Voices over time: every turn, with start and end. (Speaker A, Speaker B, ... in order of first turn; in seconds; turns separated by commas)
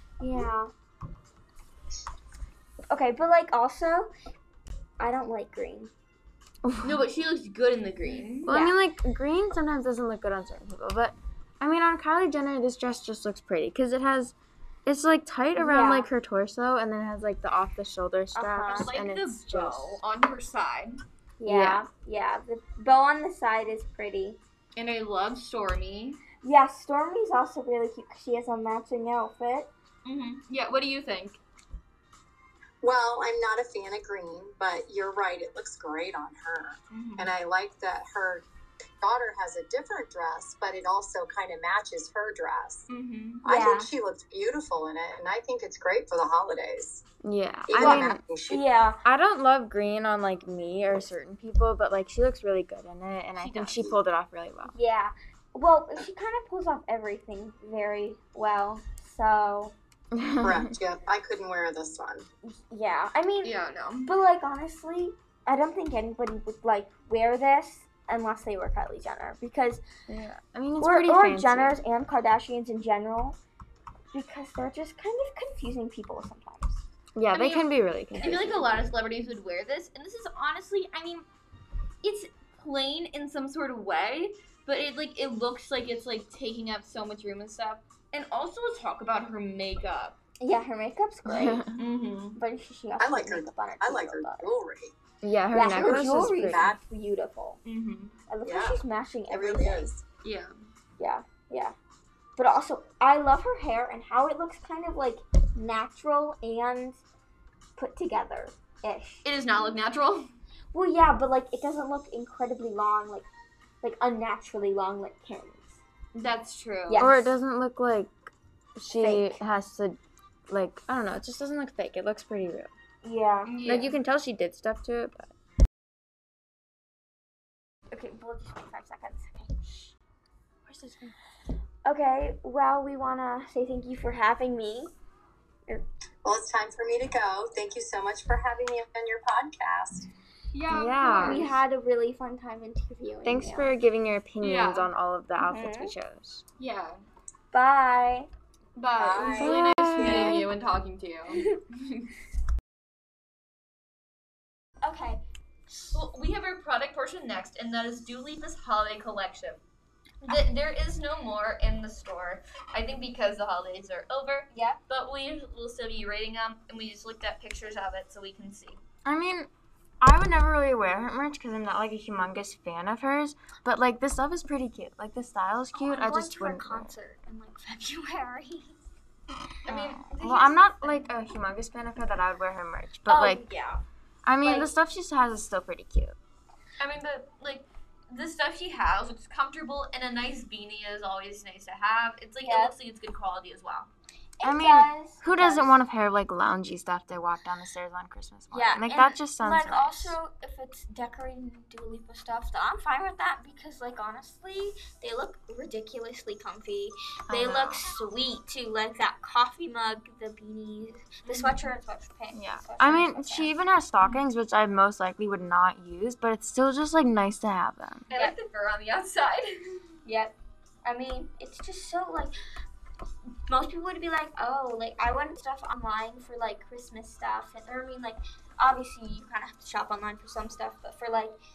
Speaker A: 0.2-0.7, Speaker A: 2.9-4.1, Speaker A: 5.0-5.9, Speaker B: 6.6-7.0, Speaker C: 6.8-8.5, Speaker A: 8.1-8.8, Speaker B: 8.5-20.0, Speaker A: 15.6-16.1, Speaker A: 18.3-18.9, Speaker C: 18.7-21.0, Speaker A: 21.4-24.4, Speaker B: 21.4-21.8, Speaker C: 24.8-26.2, Speaker A: 26.4-29.7, Speaker C: 30.0-31.4, Speaker D: 32.8-38.5, Speaker C: 36.9-37.3, Speaker D: 39.0-42.9, Speaker C: 42.9-43.4, Speaker D: 43.4-47.0, Speaker A: 43.5-43.9, Speaker B: 47.2-48.2, Speaker D: 47.7-48.6, Speaker A: 47.8-49.0, Speaker B: 49.0-54.7, Speaker C: 53.4-53.9, Speaker A: 54.6-59.7, Speaker B: 60.1-60.7, Speaker D: 60.4-62.2, Speaker A: 62.5-69.8, Speaker C: 63.4-64.1, Speaker B: 70.1-71.8, Speaker A: 70.8-73.4, Speaker A: 74.1-76.8, Speaker B: 77.2-78.6, Speaker C: 77.3-77.7, Speaker C: 78.2-81.2, Speaker C: 82.0-90.2, Speaker A: 90.4-91.6, Speaker B: 91.2-91.8, Speaker C: 91.8-92.4, Speaker A: 92.3-94.5, Speaker D: 93.0-94.9, Speaker B: 95.2-96.7, Speaker A: 95.5-97.6, Speaker D: 95.7-96.8, Speaker C: 97.6-98.1, Speaker A: 98.3-99.9, Speaker D: 98.4-100.0, Speaker C: 100.2-100.5, Speaker A: 101.0-101.7, Speaker A: 102.4-107.0, Speaker A: 107.8-109.2, Speaker C: 109.2-110.3, Speaker A: 110.7-113.2, Speaker A: 113.8-115.7, Speaker C: 116.1-117.1, Speaker A: 116.9-117.3, Speaker B: 117.0-120.0, Speaker A: 118.9-119.4, Speaker B: 120.5-122.7, Speaker A: 123.0-123.5, Speaker C: 123.5-124.0, Speaker B: 123.6-125.3, Speaker A: 127.9-129.9, Speaker B: 130.7-131.2, Speaker A: 131.8-134.9, Speaker D: 136.2-140.1, Speaker C: 140.5-141.6, Speaker B: 140.7-141.5, Speaker A: 141.2-143.7, Speaker B: 143.2-146.4, Speaker C: 144.4-144.9, Speaker A: 145.4-145.9, Speaker C: 146.6-147.0, Speaker A: 147.5-148.3, Speaker C: 148.8-152.1, Speaker D: 149.0-149.7, Speaker A: 149.1-150.4, Speaker B: 149.3-150.5, Speaker A: 154.8-155.8, Speaker C: 155.9-159.6, Speaker C: 160.2-168.8, Speaker A: 164.5-164.8, Speaker B: 169.0-169.5, Speaker B: 170.0-176.9, Speaker A: 175.7-178.8, Speaker C: 179.7-181.1, Speaker B: 179.7-183.5, Speaker A: 183.1-183.8, Speaker B: 184.2-186.2, Speaker A: 184.4-184.7, Speaker C: 186.8-193.9, Speaker A: 192.4-192.7, Speaker A: 194.4-195.7, Speaker B: 194.4-200.2, Speaker A: 198.5-213.5, Speaker B: 207.3-207.8, Speaker C: 211.2-211.7, Speaker B: 212.3-218.1, Speaker C: 218.1-219.9, Speaker A: 220.0-220.3, Speaker A: 220.8-222.3, Speaker A: 223.4-231.4